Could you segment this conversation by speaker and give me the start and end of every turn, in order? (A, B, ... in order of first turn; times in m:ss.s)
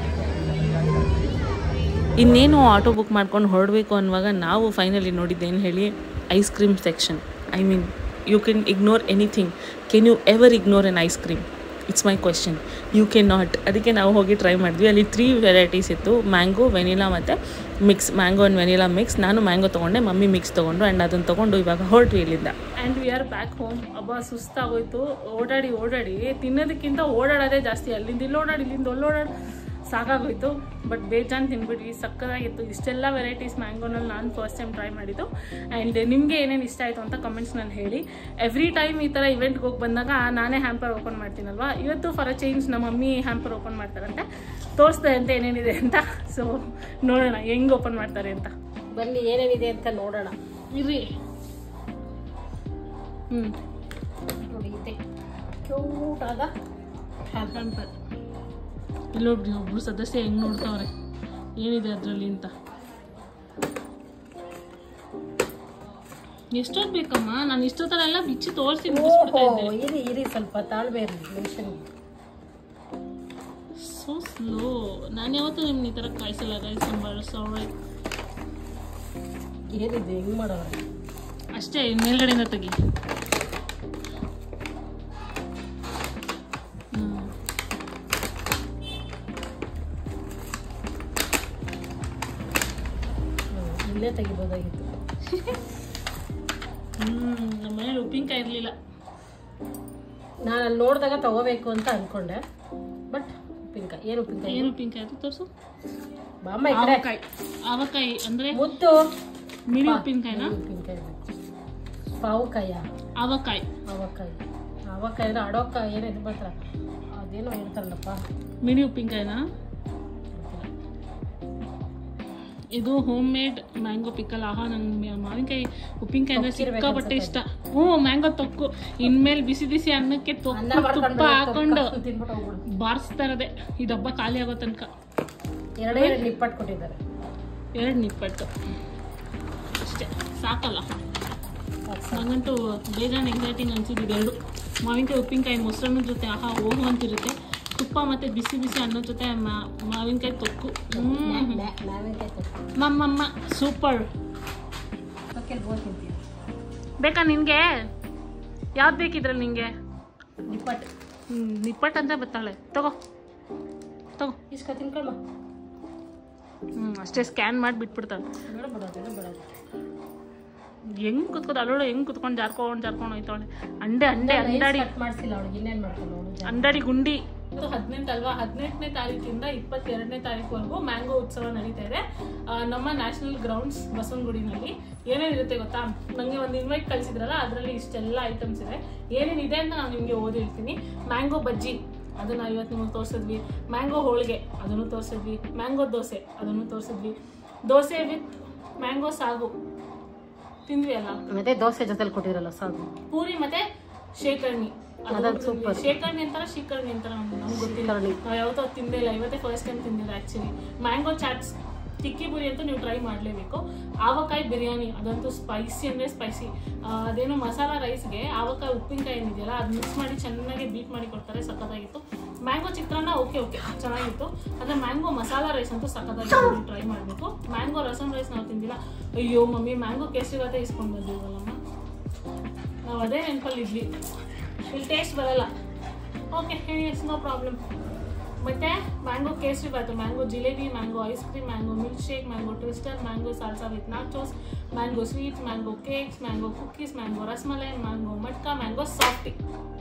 0:02.2-0:22.6 A
0:22.8-0:29.3 B
0:29.9-0:44.3 B
0:44.8-0:48.5 B
0:48.9-0:50.4 C
0:50.7-0:51.1 B
0:54.4-0:55.0 C
0:55.6-0:56.5 C
0:57.2-0:57.6 C
0:57.5-0:57.9 B
0:59.1-1:00.9 B
1:01.6-1:02.5 B
1:06.5-1:09.7 B
1:08.9-1:11.8 C
1:13.8-1:17.7 B
1:19.7-1:20.8 C
1:21.6-1:22.8 B
1:26.9-1:27.3 B
1:33.5-1:34.9 C
1:35.3-1:35.6 B
1:37.0-1:38.8 B
1:40.4-1:42.4 C
1:43.1-1:44.7 C
1:44.5-1:45.5 B
1:46.4-1:47.0 C
1:46.7-1:48.6 B
1:48.5-1:49.0 C
1:49.7-1:50.6 B
1:49.8-1:51.2 C
1:52.2-1:52.8 C
1:53.2-1:53.7 B
1:53.9-1:56.6 C
1:57.1-1:58.2 C
1:58.6-1:59.4 B
2:00.4-2:00.7 C
2:02.7-2:11.9 B
2:06.4-2:07.4 C
2:10.5-2:12.6 C
2:12.7-2:14.9 B
2:15.8-2:17.0 C
2:15.9-2:16.2 B
2:17.8-2:18.5 B
2:19.8-2:20.9 B
2:21.9-2:22.3 C
2:22.1-2:31.6 B
2:30.9-2:32.6 C
2:32.8-2:34.1 B
2:35.3-2:36.2 C
2:37.0-2:37.8 B
2:38.8-2:39.7 B
2:40.5-2:40.9 C
2:41.3-2:43.0 B
2:44.5-2:45.2 C
2:46.8-2:48.2 B
2:48.5-2:49.5 C
2:51.0-2:54.9 B
2:54.2-2:56.8 C
2:56.5-3:19.5 B
3:20.7-3:21.2 B
3:21.3-3:22.9 C
3:23.1-3:23.6 B
3:24.2-3:51.6 B
3:25.1-3:25.9 C
3:27.5-3:28.2 C
3:52.8-3:53.9 B
3:54.7-3:55.5 B
3:56.3-3:57.6 B
3:58.4-4:09.4 B